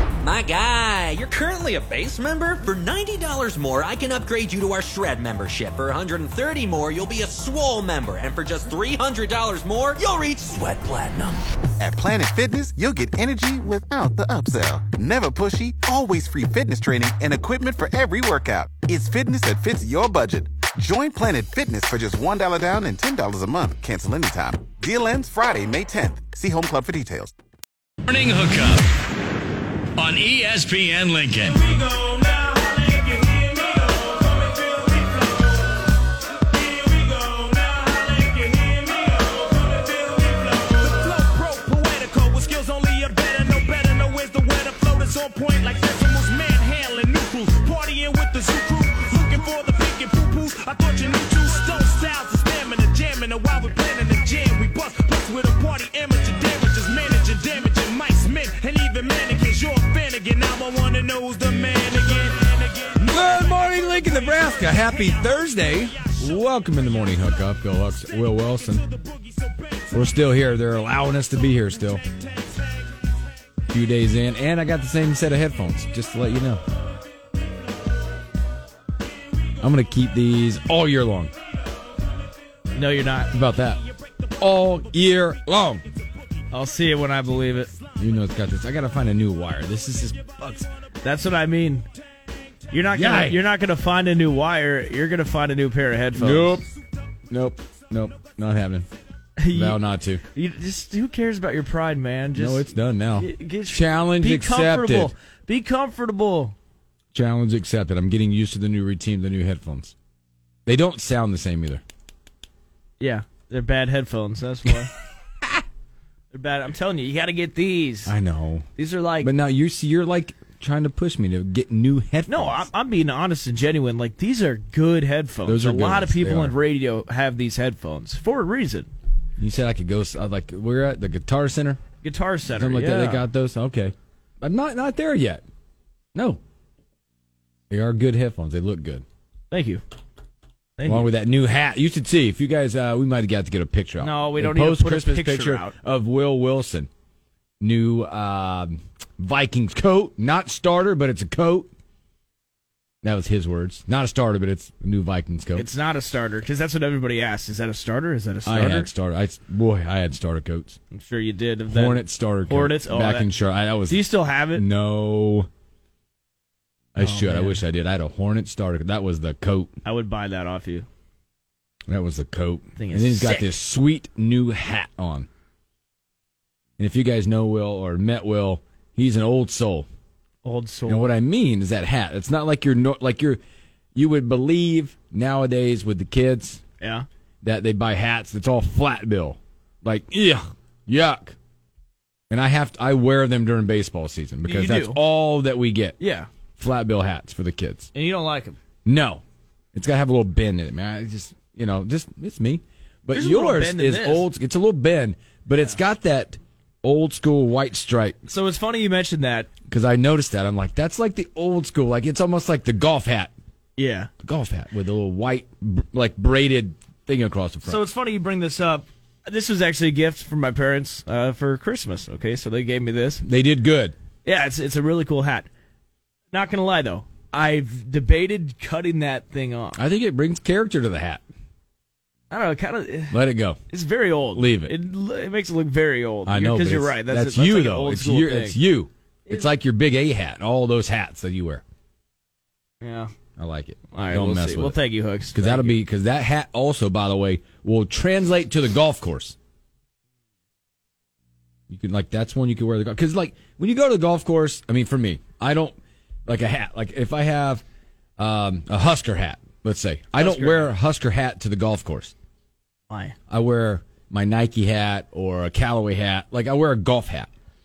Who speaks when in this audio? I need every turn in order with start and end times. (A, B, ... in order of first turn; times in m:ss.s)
0:00.2-0:11.4 A
0:11.8-0:27.3 B
0:28.1-0:28.9 C
0:30.0-0:31.2 A
0:30.1-0:31.5 C
0:31.4-1:06.2 D
1:03.0-1:08.8 E
1:08.3-1:09.9 D
1:09.9-1:12.0 E
1:12.2-1:12.5 D
1:13.7-1:16.6 E
1:19.6-1:21.3 E
1:22.8-1:23.3 F
1:23.3-1:23.8 E
1:24.4-1:25.8 E
1:26.5-1:27.7 F
1:28.0-1:30.7 E
1:31.0-1:31.9 F
1:32.7-1:36.6 F
1:32.9-1:33.4 E
1:36.2-1:36.7 E
1:37.3-1:38.9 E
1:39.4-1:39.8 F
1:39.5-1:40.2 E
1:40.3-1:46.6 F
1:42.4-1:45.1 E
1:47.1-1:50.0 E
1:50.7-1:51.8 E
1:53.0-1:54.9 F
1:56.3-1:58.1 F
1:58.1-1:58.7 E
1:58.8-1:59.3 F
1:59.2-2:02.7 E
2:02.3-2:08.9 F
2:05.4-2:06.6 E
2:09.4-2:11.8 E
2:12.0-2:13.3 F
2:12.5-2:15.4 E
2:16.1-2:16.4 E
2:17.7-2:19.0 E
2:19.5-2:19.8 F
2:20.8-2:21.1 F
2:20.8-2:26.9 E
2:24.0-2:25.8 F
2:27.6-2:31.7 E
2:33.0-2:35.7 E
2:35.6-2:38.9 F
2:38.4-2:40.8 E
2:40.9-2:43.3 F
2:41.7-2:45.5 E
2:43.9-2:44.7 F
2:47.0-2:49.8 E
2:47.0-2:47.6 F
2:49.8-2:50.9 F
2:51.9-2:55.3 E
2:52.8-2:53.5 F
2:56.8-2:59.9 E
3:00.4-3:01.1 F
3:00.9-3:03.4 E
3:04.0-3:06.6 E
3:06.8-3:07.1 F
3:07.4-3:11.4 E
3:12.3-3:16.0 E
3:14.4-3:15.0 F
3:16.0-3:16.3 F
3:16.6-3:17.9 E
3:18.0-3:18.6 F
3:18.8-3:19.2 E
3:19.7-3:28.2 E
3:23.1-3:24.3 F
3:28.3-3:29.5 F
3:29.7-3:33.3 E
3:33.8-3:34.1 F
3:34.2-3:37.8 E
3:37.6-3:43.2 F
3:43.2-3:44.0 E
3:44.2-3:45.5 F
3:46.3-3:49.8 F
3:49.8-3:51.2 E
3:52.3-3:53.2 F
3:53.1-3:53.6 E
3:53.7-3:58.6 F
3:54.3-3:54.8 E
3:56.3-4:01.6 E
4:02.8-4:03.1 F
4:03.4-4:04.8 E
4:03.9-4:05.8 F
4:05.3-4:09.4 E
4:11.7-4:17.6 E
4:18.2-4:22.1 E
4:20.2-4:20.7 F
4:22.9-4:23.2 F
4:23.3-4:27.3 E